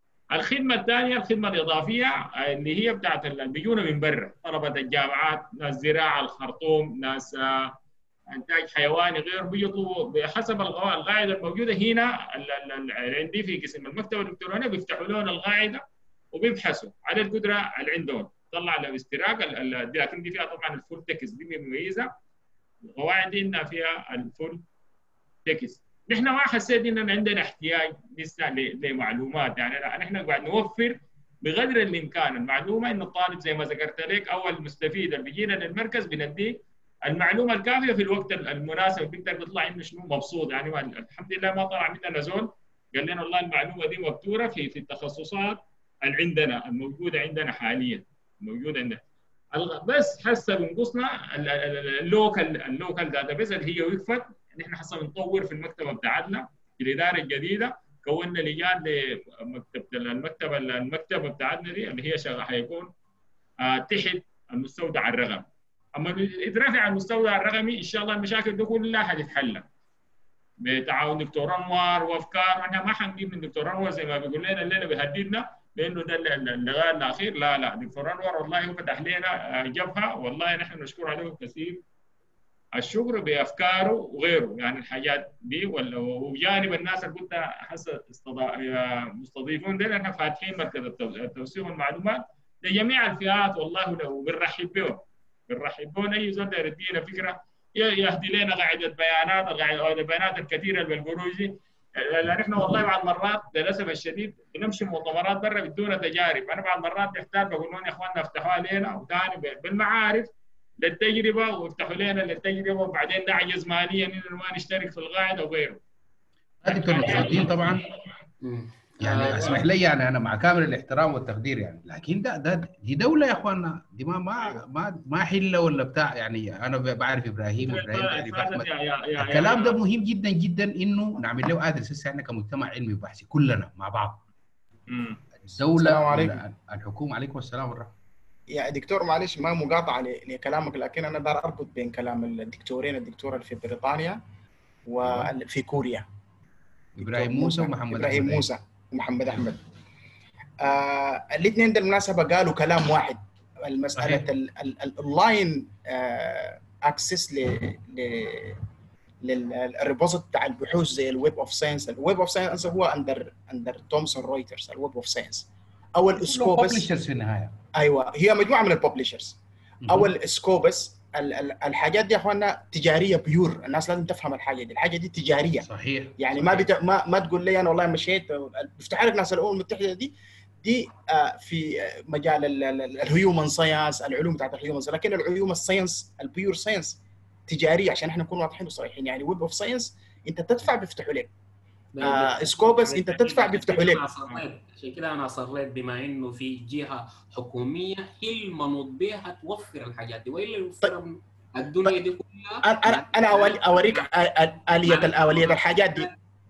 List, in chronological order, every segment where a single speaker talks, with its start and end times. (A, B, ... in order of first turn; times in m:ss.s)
0:00.3-0:07.7 A
0:08.3-0:15.8 A
0:16.3-0:22.1 A
0:22.9-0:24.6 A
0:25.5-0:36.6 A
0:37.1-0:49.0 A
0:49.5-1:02.9 A
1:03.6-1:09.6 A
1:10.6-1:21.8 A
1:22.8-1:50.3 A
1:50.8-1:55.8 A
1:56.6-1:57.8 B
1:56.7-1:57.8 A
1:58.4-1:59.6 C
1:59.0-2:14.2 B
2:07.6-2:09.8 A
2:14.9-2:15.2 A
2:15.4-2:17.9 B
2:15.8-2:16.4 D
2:18.5-2:24.2 D
2:24.9-2:26.0 D
2:25.0-2:25.3 B
2:27.0-2:28.5 B
2:27.0-2:29.6 D
2:30.6-2:38.6 D
2:34.0-2:34.3 B
2:39.2-2:46.9 D
2:46.2-2:47.6 B
2:47.8-2:49.4 D
2:49.8-2:50.1 B
2:49.9-2:55.7 D
2:55.6-2:56.7 B
2:56.2-3:11.3 D
3:12.0-3:24.1 C
3:12.0-3:14.4 D
3:22.6-3:26.1 D
3:24.8-3:26.1 C